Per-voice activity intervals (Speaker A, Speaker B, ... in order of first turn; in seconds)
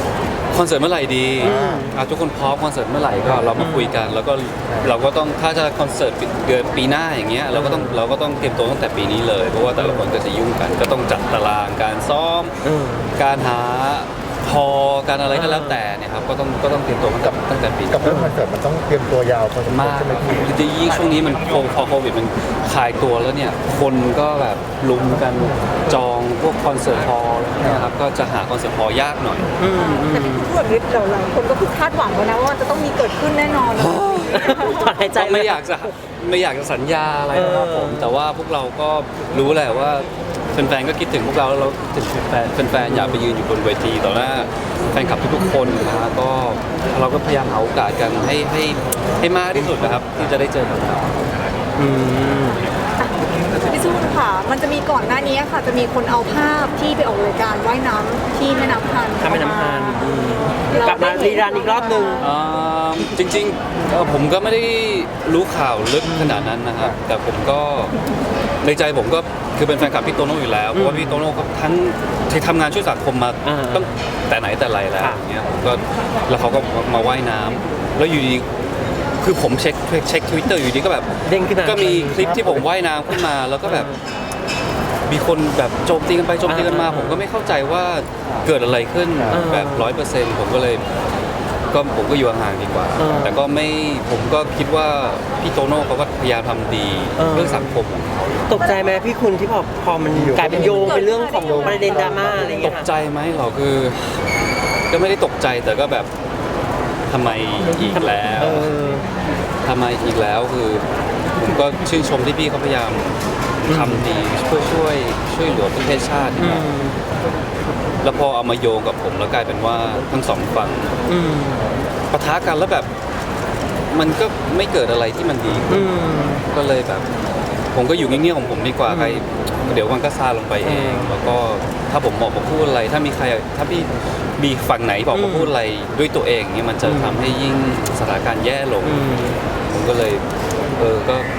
Speaker A: 0.5-12.5, 13.2-18.0, 19.7-29.5, 33.7-34.5, 35.1-51.1, 62.2-67.9, 68.6-78.5, 79.2-81.1, 81.6-83.9, 85.1-90.8, 91.7-98.6, 102.6-104.2, 104.9-106.1, 107.1-108.7, 109.6-116.7, 118.0-121.0, 122.1-122.9, 123.9-125.9, 126.5-127.1, 127.7-139.0, 139.6-140.2, 140.8-141.3
Speaker B: 1.4-1.9, 3.3-3.6, 4.7-5.0, 17.9-20.5, 25.3-25.8, 27.6-27.9, 82.2-82.7, 100.1-102.6
Speaker C: 1.4-1.9, 3.6-3.9, 7.5-8.1, 12.6-13.1, 15.3-15.8, 18.0-18.3, 29.6-30.5, 34.3-35.7, 37.3-38.1, 42.8-43.2, 51.8-52.6, 59.2-62.2, 66.0-66.5, 70.7-71.2, 73.4-73.9, 81.2-82.4, 83.1-84.0, 86.4-87.2, 89.3-90.0, 93.0-93.4, 97.2-97.8, 98.5-102.9, 107.9-109.0, 113.7-114.0, 116.4-117.0, 121.1-121.8, 125.7-126.4, 128.9-129.2, 130.6-131.1, 135.1-135.5, 136.8-137.2, 138.8-139.4
Speaker D: 29.8-34.9, 53.7-60.1, 60.7-62.4, 100.5-102.7